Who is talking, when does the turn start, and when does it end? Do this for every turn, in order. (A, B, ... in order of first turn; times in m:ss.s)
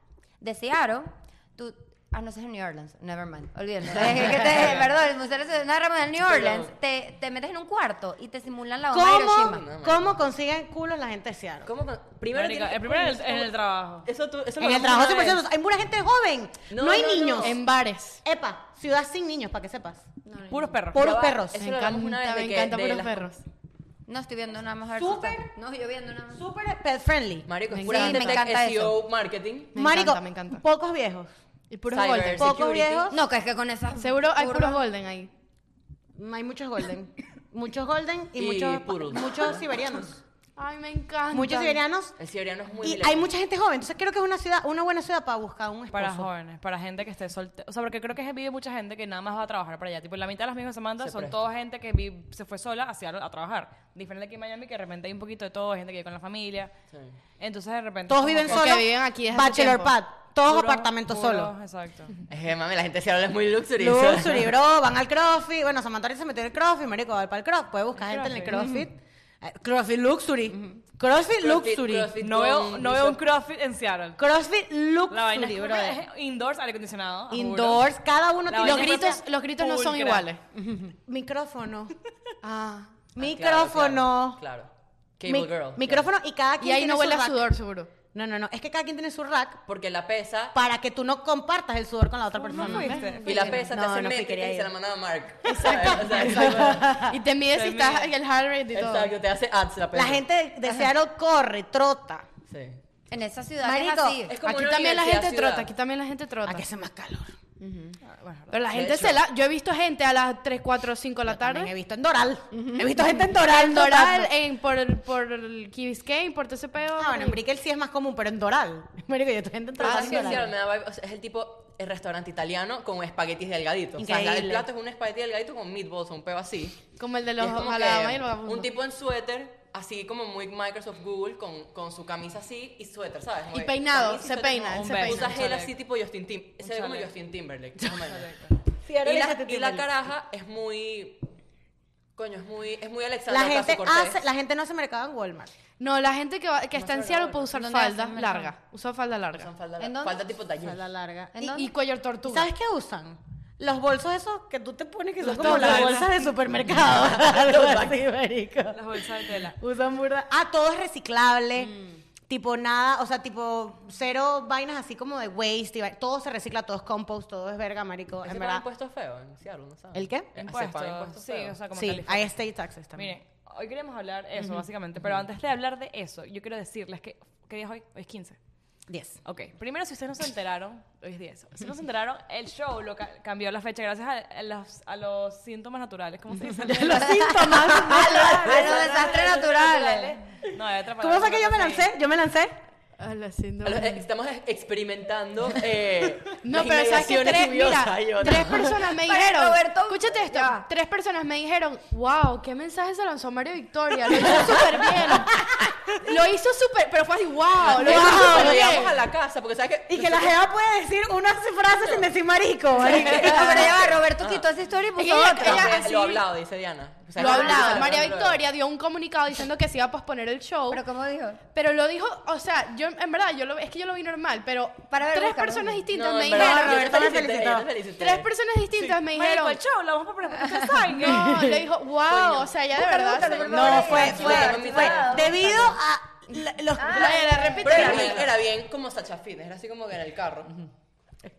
0:00.4-0:09.6 A
0:03.9-0:04.9 B
0:06.2-0:06.7 B
0:08.9-0:11.7 C
0:09.4-0:10.1 B
0:11.6-0:13.5 B
0:12.3-0:14.1 D
0:14.0-0:15.4 B
0:14.6-0:17.6 C
0:16.7-0:17.6 B
0:17.4-0:18.2 E
0:18.2-0:20.1 C
0:20.2-0:20.7 A
0:20.5-0:21.2 D
0:20.9-0:21.6 C
0:20.9-0:23.3 B
0:21.6-0:23.4 E
0:24.1-0:26.4 A
0:24.9-0:25.5 C
0:26.3-0:27.5 C
0:27.5-0:29.7 B
0:27.7-0:28.4 E
0:27.8-0:29.0 A
0:29.7-0:30.6 E
0:29.7-0:31.3 C
0:31.7-0:32.6 E
0:31.9-0:33.1 B
0:32.4-0:33.2 C
0:33.1-0:34.8 A
0:33.9-0:35.3 E
0:36.2-0:40.2 C
0:38.4-0:39.6 B
0:40.6-0:41.8 E
0:41.3-0:42.2 C
0:42.2-0:43.3 B
0:42.8-0:46.3 C
0:45.9-0:56.7 D
0:51.0-0:51.4 B
0:56.9-0:57.2 B
0:57.4-0:58.7 D
0:58.1-1:01.5 C
0:58.5-1:00.0 E
1:00.4-1:02.2 D
1:02.3-1:04.5 B
1:03.8-1:12.1 C
1:07.9-1:08.7 D
1:08.5-1:08.8 E
1:11.4-1:13.2 B
1:12.2-1:14.2 D
1:14.2-1:16.0 C
1:15.1-1:17.9 D
1:17.3-1:19.2 C
1:18.5-1:20.3 D
1:18.6-1:20.4 E
1:20.5-1:21.9 C
1:22.4-1:23.0 E
1:23.1-1:24.4 C
1:23.2-1:26.1 B
1:25.3-1:27.5 C
1:26.6-1:27.9 E
1:28.1-1:29.6 C
1:29.7-1:30.5 B
1:30.5-1:34.7 C
1:32.4-1:33.5 D
1:32.6-1:33.1 E
1:33.2-1:33.6 A
1:33.2-1:37.0 B
1:35.4-1:39.1 E
1:35.5-1:37.2 C
1:37.5-1:38.1 D
1:38.7-1:40.2 B
1:39.9-1:42.2 C
1:42.5-1:42.8 B
1:43.1-1:44.4 A
1:43.6-1:44.2 C
1:44.3-1:45.7 B
1:44.4-1:46.6 E
1:46.4-1:47.3 C
1:47.6-1:48.0 A
1:48.0-1:48.6 D
1:48.5-1:51.7 E
1:48.7-1:49.2 B
1:51.3-1:54.3 C
1:52.5-1:52.8 A
1:53.3-1:57.4 E
1:57.0-2:00.5 C
1:59.8-2:06.8 B
1:59.8-2:00.5 E
2:04.0-2:04.7 C
2:07.0-2:08.7 E
2:07.4-2:18.3 B
2:13.5-2:15.4 E
2:14.7-2:15.7 D
2:16.6-2:17.1 D
2:18.0-2:18.6 D
2:18.8-2:19.9 C
2:19.0-2:21.2 B
2:22.2-2:24.2 B
2:23.3-2:25.5 C
2:25.8-2:29.5 E
2:26.8-2:27.5 B
2:27.5-2:28.5 A
2:29.3-2:30.8 B
2:29.8-2:30.2 A
2:30.6-2:31.4 C
2:31.3-2:31.7 A
2:31.4-2:32.5 E
2:32.2-2:41.7 C
2:35.2-2:36.1 D
2:35.2-2:36.1 E
2:36.8-2:38.0 B
2:38.7-2:39.6 D
2:42.3-2:48.6 C
2:48.2-2:51.6 B
2:49.9-2:50.3 C
2:50.4-2:52.4 D
2:51.7-2:53.1 C
2:52.9-2:58.4 D
2:58.9-2:59.2 C
2:59.2-3:11.9 D
3:06.6-3:08.9 C
3:07.0-3:10.2 A
3:11.0-3:12.5 C
3:13.0-3:14.0 E
3:13.6-3:18.9 B
3:16.4-3:25.4 E
3:19.0-3:20.6 A
3:24.1-3:25.7 C
3:26.0-3:29.0 E
3:27.6-3:30.4 B
3:27.7-3:28.9 C
3:29.9-3:34.0 C
3:32.8-3:34.5 B
3:32.9-3:35.8 A
3:35.0-3:36.2 E
3:35.4-3:38.4 B
3:37.2-3:40.8 E
3:37.2-3:38.0 A
3:40.7-3:41.4 A
3:41.5-3:47.0 E
3:44.9-3:45.8 A
3:45.9-3:48.3 B
3:46.3-3:47.7 C
3:48.0-3:49.6 E
3:48.7-3:51.4 D
3:50.8-3:54.4 E
3:51.1-3:51.6 C
3:52.0-3:52.5 B
3:52.7-3:55.8 A
3:53.1-3:55.6 B
3:53.4-3:58.3 C
3:56.8-3:57.4 A
3:56.8-3:58.2 E
3:57.6-4:00.6 B